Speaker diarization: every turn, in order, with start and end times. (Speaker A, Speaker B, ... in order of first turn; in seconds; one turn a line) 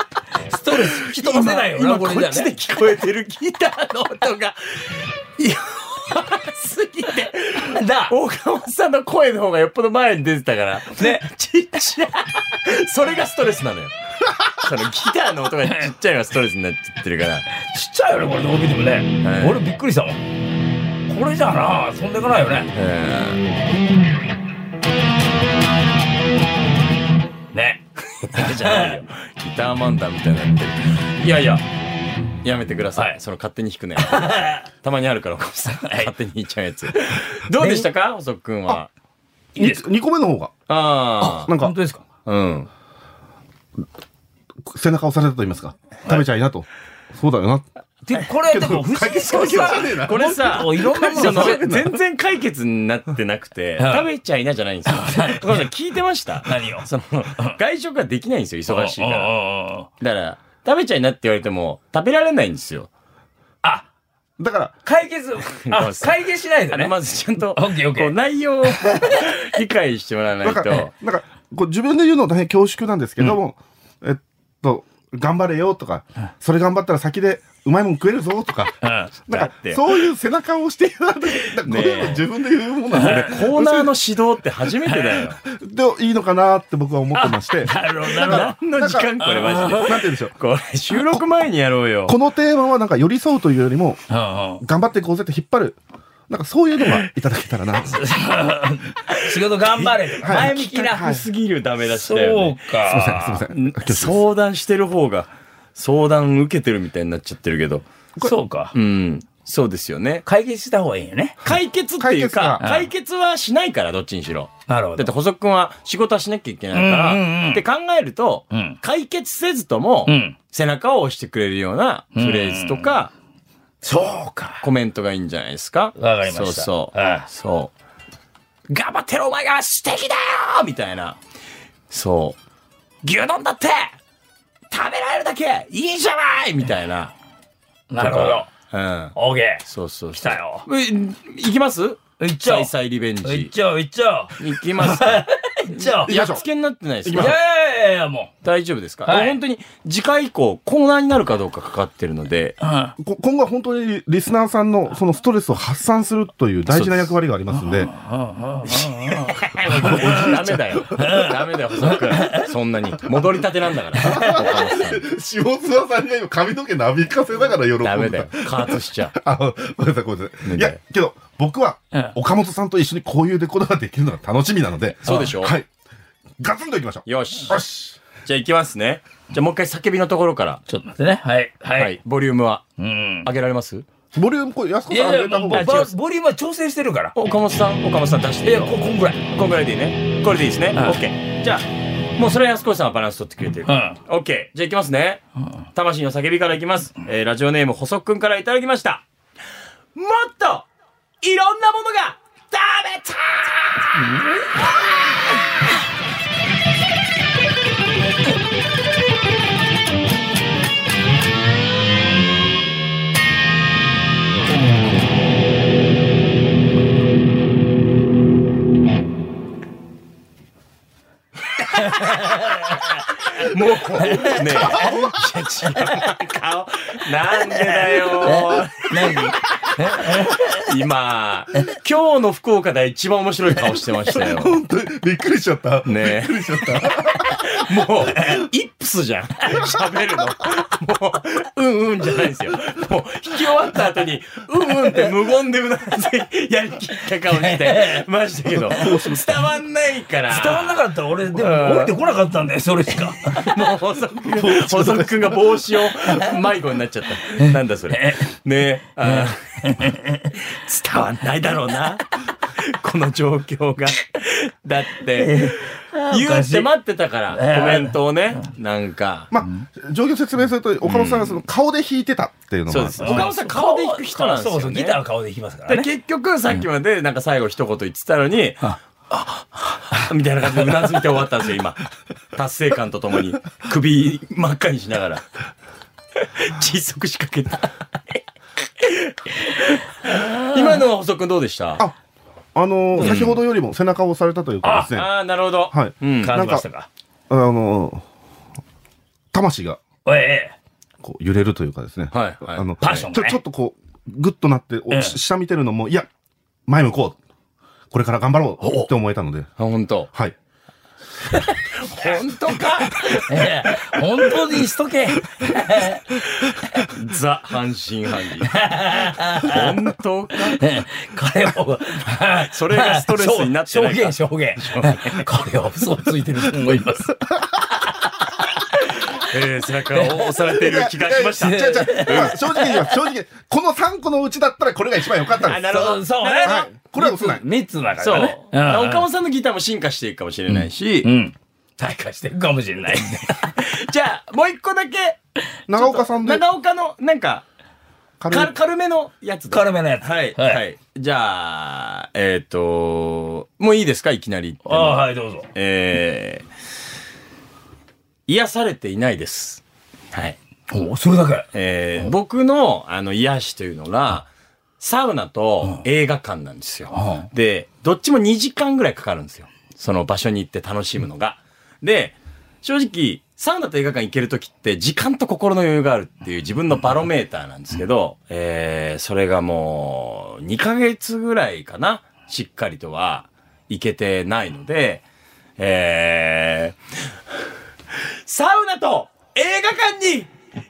Speaker A: 0.4-2.5
Speaker B: 0.8-17.5
Speaker A: 7.6-8.1
Speaker A: 11.0-11.2
Speaker A: 17.6-20.2
Speaker B: 19.2-19.6
Speaker A: 21.1-22.7
Speaker B: 22.7-23.4
Speaker A: 27.5-29.0
Speaker B: 28.3-31.6
Speaker B: 32.4-38.9
Speaker A: 34.0-34.6
Speaker A: 35.8-36.1
Speaker A: 37.1-37.9
Speaker C: 39.6-40.5
Speaker A: 39.6-39.8
Speaker B: 40.7-41.5
Speaker A: 41.2-42.0
Speaker C: 41.3-41.7
Speaker B: 42.2-42.7
Speaker C: 44.6-47.7
Speaker A: 48.1-51.6
Speaker C: 48.4-52.0
Speaker B: 49.0-59.3
Speaker A: 53.8-54.1
Speaker A: 54.9-55.6
Speaker A: 56.5-56.9
Speaker A: 58.7-59.9
Speaker B: 60.0-62.9
Speaker C: 64.4-64.8
Speaker A: 64.8-68.1
Speaker B: 65.7-70.9
Speaker A: 68.7-69.3
Speaker C: 70.4-78.8
Speaker A: 78.8-79.1
Speaker C: 79.3-83.9
Speaker B: 79.3-79.8
Speaker B: 81.6-82.3
Speaker B: 83.0-85.4
Speaker A: 83.0-83.4
Speaker C: 85.4-90.3
Speaker A: 87.1-88.6
Speaker B: 88.1-92.2
Speaker A: 89.2-89.9
Speaker C: 92.1-94.0
Speaker A: 94.1-94.6
Speaker C: 94.6-98.0
Speaker A: 97.8-101.2
Speaker B: 99.8-107.9
Speaker C: 100.2-101.2
Speaker A: 101.9-103.2
Speaker C: 102.9-104.2
Speaker A: 108.2-108.7
Speaker B: 108.7-110.2
Speaker A: 110.3-111.4
Speaker B: 111.4-123.1
Speaker C: 111.5-112.6
Speaker A: 112.6-112.9
Speaker A: 114.7-115.1
Speaker A: 116.7-117.6
Speaker A: 118.5-118.8
Speaker A: 120.1-120.4
Speaker A: 122.1-123.0
Speaker A: 123.8-124.6
Speaker B: 124.6-127.7
Speaker A: 126.0-127.3
Speaker B: 128.7-131.2
Speaker B: 131.9-132.4
Speaker B: 133.0-134.0
Speaker B: 134.7-137.1
Speaker A: 137.9-138.5
Speaker B: 138.0-143.5
Speaker A: 139.1-139.6
Speaker A: 140.2-140.7
Speaker A: 142.2-142.7
Speaker A: 143.2-146.1
Speaker B: 144.4-147.4
Speaker C: 146.1-146.4
Speaker C: 147.1-147.4
Speaker A: 147.1-148.3
Speaker B: 148.4-152.6
Speaker A: 149.1-149.4
Speaker A: 152.6-152.9
Speaker C: 153.0-157.9
Speaker B: 156.7-157.1
Speaker A: 157.5-160.2
Speaker B: 158.7-165.1
Speaker C: 159.7-161.2
Speaker A: 161.0-161.3
Speaker A: 161.9-162.5
Speaker C: 164.0-175.7
Speaker B: 167.8-169.2
Speaker B: 170.4-170.8
Speaker B: 175.0-175.6
Speaker A: 175.1-175.3
Speaker C: 176.4-178.0
Speaker B: 177.1-180.6
Speaker A: 180.7-182.0
Speaker B: 181.8-182.6
Speaker A: 182.8-183.3
Speaker B: 183.2-183.8
Speaker C: 184.1-185.8
Speaker A: 184.9-187.1
Speaker B: 185.5-185.9
Speaker B: 187.1-199.0
Speaker A: 188.4-189.2
Speaker A: 190.8-191.0
Speaker A: 193.7-194.0
Speaker B: 199.9-200.7
Speaker B: 201.2-205.5
Speaker A: 221.8-222.8
Speaker B: 221.8-222.4
Speaker B: 223.3-229.3
Speaker A: 224.0-225.0
Speaker A: 227.8-230.6
Speaker B: 229.9-234.6
Speaker C: 234.1-237.6
Speaker B: 235.9-250.7
Speaker A: 247.3-248.1
Speaker C: 248.6-249.2
Speaker A: 250.3-253.5
Speaker B: 251.3-251.9
Speaker B: 253.2-269.3
Speaker C: 254.3-255.5
Speaker A: 257.4-258.3
Speaker A: 259.0-260.3
Speaker A: 265.2-266.7
Speaker A: 267.3-268.0
Speaker C: 269.3-273.3
Speaker B: 270.8-271.4
Speaker B: 272.7-275.0
Speaker A: 273.0-275.9
Speaker B: 275.7-278.8
Speaker B: 279.6-285.3
Speaker B: 286.2-288.2
Speaker B: 288.8-291.8
Speaker C: 292.6-295.1
Speaker B: 293.0-293.4
Speaker A: 294.6-294.9
Speaker B: 294.9-296.4
Speaker C: 295.7-296.6
Speaker A: 296.2-296.9
Speaker C: 297.3-298.0
Speaker C: 299.3-299.8
Speaker A: 300.1-300.6
Speaker C: 301.0-306.1
Speaker B: 302.1-303.1
Speaker A: 302.8-303.4
Speaker A: 304.9-305.2
Speaker C: 306.7-307.2
Speaker C: 307.9-309.5
Speaker A: 308.6-308.9
Speaker B: 309.6-310.1
Speaker B: 311.7-314.0
Speaker A: 313.2-316.1
Speaker B: 316.7-318.6
Speaker A: 318.5-319.7
Speaker B: 319.4-320.6
Speaker A: 320.6-327.1
Speaker B: 322.5-325.3
Speaker B: 329.1-332.3
Speaker A: 329.9-330.2
Speaker C: 330.6-335.7
Speaker A: 331.3-332.9
Speaker B: 335.4-336.7
Speaker A: 335.7-339.1
Speaker C: 336.4-337.4
Speaker B: 338.0-341.1
Speaker A: 340.5-343.6
Speaker B: 343.5-345.2
Speaker C: 345.7-346.4
Speaker B: 345.7-347.4
Speaker C: 348.2-348.5
Speaker B: 348.3-356.5
Speaker A: 349.5-350.6
Speaker A: 354.6-355.5
Speaker B: 358.3-360.4
Speaker A: 360.7-361.5
Speaker B: 361.5-364.3
Speaker B: 364.8-385.0
Speaker A: 366.9-367.3
Speaker B: 385.6-386.8
Speaker B: 388.2-390.3